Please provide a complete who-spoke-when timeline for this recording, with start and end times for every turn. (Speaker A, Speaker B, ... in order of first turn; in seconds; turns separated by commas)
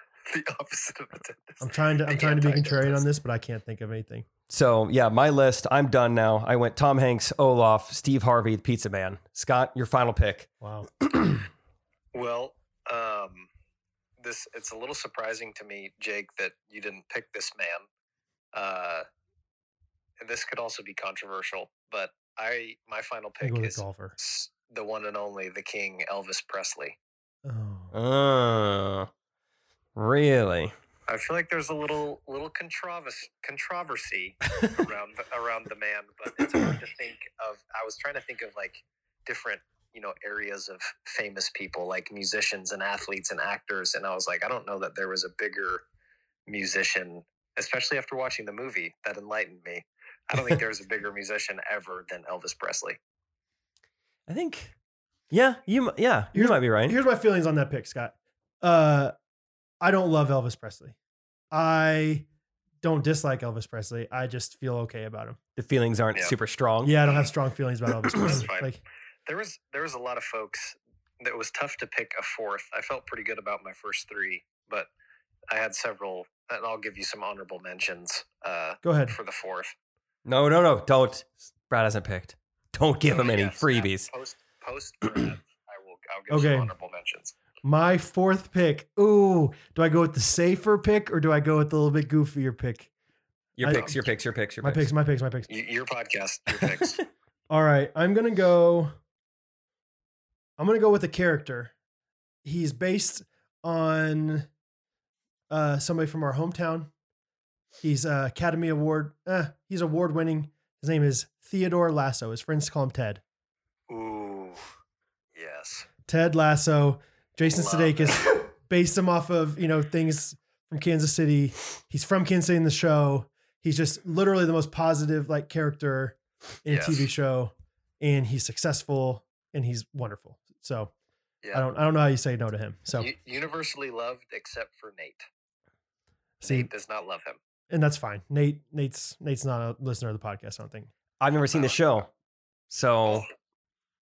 Speaker A: 0.2-3.0, Speaker B: 1.6-4.2, Speaker C: 4.5-10.5, Speaker B: 10.6-10.9, Speaker C: 11.1-11.4, Speaker A: 12.1-13.5, Speaker A: 14.2-17.9, Speaker A: 18.5-19.0, Speaker A: 20.2-27.0, Speaker B: 23.4-24.1, Speaker B: 27.4-27.9, Speaker C: 27.9-29.1, Speaker C: 29.9-30.7, Speaker A: 31.1-45.8, Speaker A: 46.5-53.0, Speaker C: 54.3-54.7, Speaker C: 55.3-57.0, Speaker B: 56.3-59.1, Speaker B: 59.8-60.9, Speaker B: 61.5-62.2, Speaker B: 62.8-65.4, Speaker C: 65.5-67.0, Speaker B: 66.8-68.8, Speaker A: 68.1-68.7, Speaker A: 69.2-74.9, Speaker A: 75.5-79.7, Speaker B: 78.8-79.2, Speaker C: 80.2-84.1, Speaker A: 83.0-87.3, Speaker B: 86.3-86.7, Speaker B: 87.6-92.9, Speaker C: 93.6-94.9, Speaker B: 93.6-94.0, Speaker B: 94.6-95.5, Speaker A: 95.5-97.0, Speaker C: 96.6-96.9, Speaker B: 97.5-98.9, Speaker B: 100.6-101.7, Speaker B: 102.4-104.5, Speaker B: 105.5-106.9, Speaker B: 107.8-113.2, Speaker A: 113.9-114.7, Speaker A: 115.3-115.9, Speaker B: 116.1-130.9, Speaker A: 117.4-118.3, Speaker A: 126.7-127.1, Speaker B: 131.5-133.1, Speaker A: 133.0-135.2, Speaker B: 136.4-136.7, Speaker A: 136.4-137.4, Speaker B: 137.7-140.9, Speaker C: 141.2-142.1, Speaker C: 142.7-143.3